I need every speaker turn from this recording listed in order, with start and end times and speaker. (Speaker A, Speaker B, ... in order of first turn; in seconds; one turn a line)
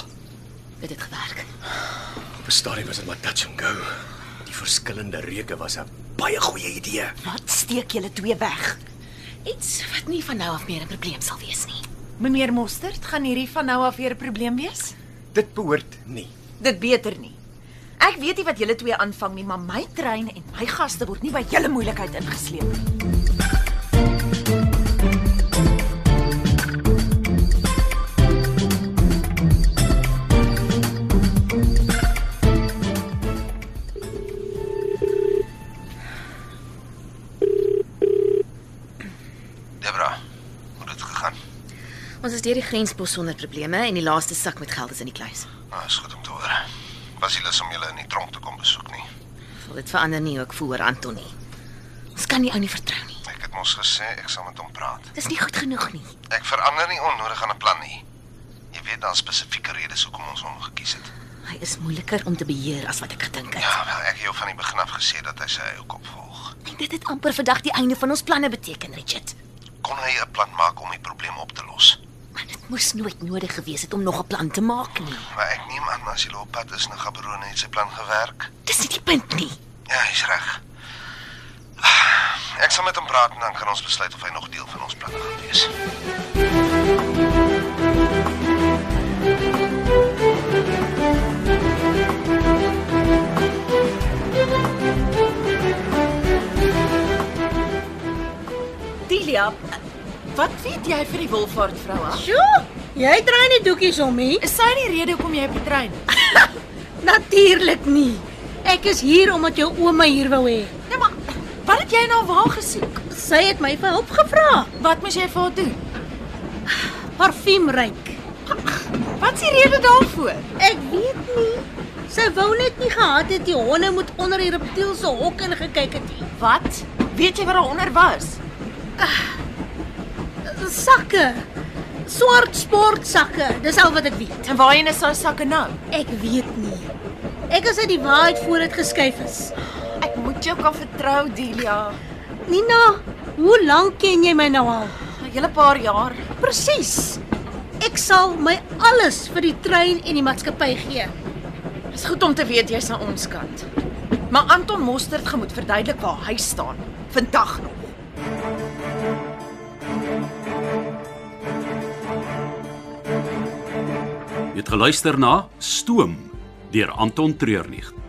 Speaker A: 0.8-1.5
Speaker B: 2.4-7.2
Speaker C: 7.2-8.8
Speaker A: 9.4-11.8
Speaker C: 12.2-14.9
Speaker B: 15.3-16.3
Speaker C: 16.6-17.4
Speaker C: 18.0-22.8
Speaker D: 39.8-40.2
Speaker D: 40.8-41.4
Speaker A: 42.2-45.5
Speaker D: 45.7-46.6
Speaker D: 47.2-49.0
Speaker A: 49.6-51.3
Speaker A: 52.1-53.2
Speaker D: 53.2-55.1
Speaker A: 55.1-56.1
Speaker D: 56.3-58.0
Speaker D: 58.7-61.1
Speaker A: 61.4-63.7
Speaker D: 63.6-66.5
Speaker A: 66.6-69.3
Speaker D: 69.8-72.0
Speaker A: 72.3-75.3
Speaker D: 75.3-78.5
Speaker A: 78.7-79.6
Speaker D: 79.9-80.6
Speaker D: 81.8-85.7
Speaker C: 99.1-99.8
Speaker C: 100.3-102.2
Speaker E: 102.2-104.3
Speaker C: 104.4-106.0
Speaker E: 107.0-110.7
Speaker C: 110.9-113.0
Speaker E: 113.1-114.7
Speaker C: 114.8-115.8
Speaker E: 117.1-118.2
Speaker C: 119.2-120.5
Speaker E: 120.6-126.2
Speaker C: 126.3-128.4
Speaker E: 130.5-131.4
Speaker E: 132.0-134.4
Speaker C: 134.4-135.8
Speaker E: 135.9-136.9
Speaker E: 137.5-139.5
Speaker C: 140.0-142.0
Speaker E: 142.4-144.9
Speaker C: 145.2-146.3
Speaker E: 146.4-147.2
Speaker E: 147.8-151.1
Speaker C: 151.9-153.7
Speaker C: 154.3-157.9
Speaker F: 164.5-167.9